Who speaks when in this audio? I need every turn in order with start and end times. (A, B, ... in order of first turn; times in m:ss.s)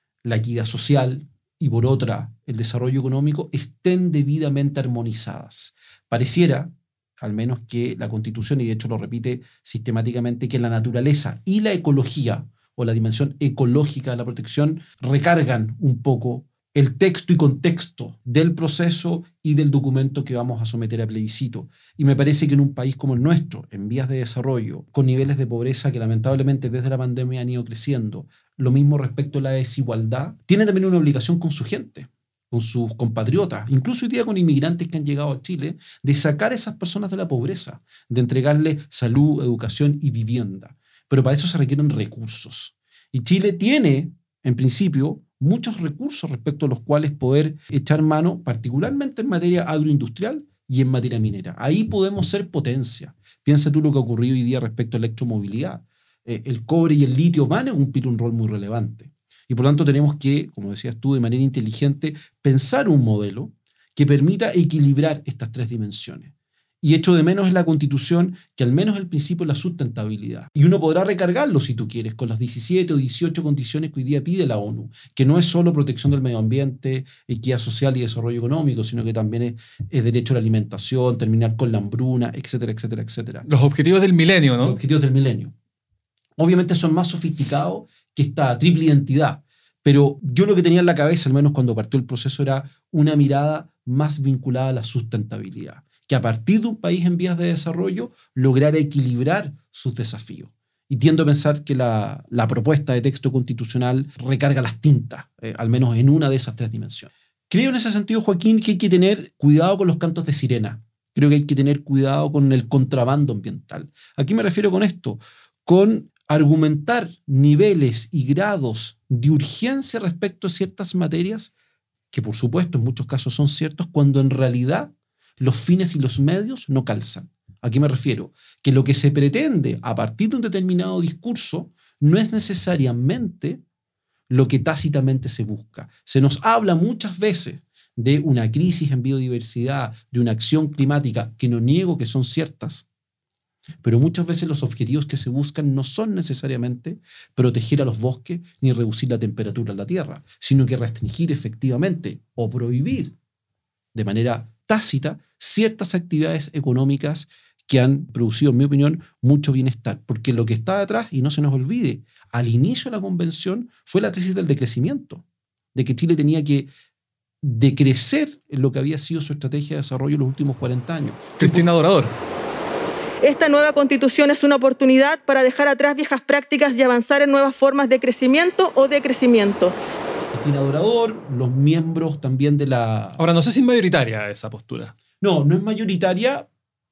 0:00.2-1:23.5 A
1:23.4-1:24.8 B
1:24.6-1:25.5 A
1:26.4-2:01.5 A
2:02.1-2:13.6 A
2:14.3-2:22.8 A
2:23.8-2:33.1 A
2:33.9-2:46.7 A
2:47.4-2:51.6 A
2:51.4-2:52.2 B
2:53.2-2:59.8 C
3:00.3-3:03.2 A
3:03.2-3:04.9 B
3:05.2-3:06.5 A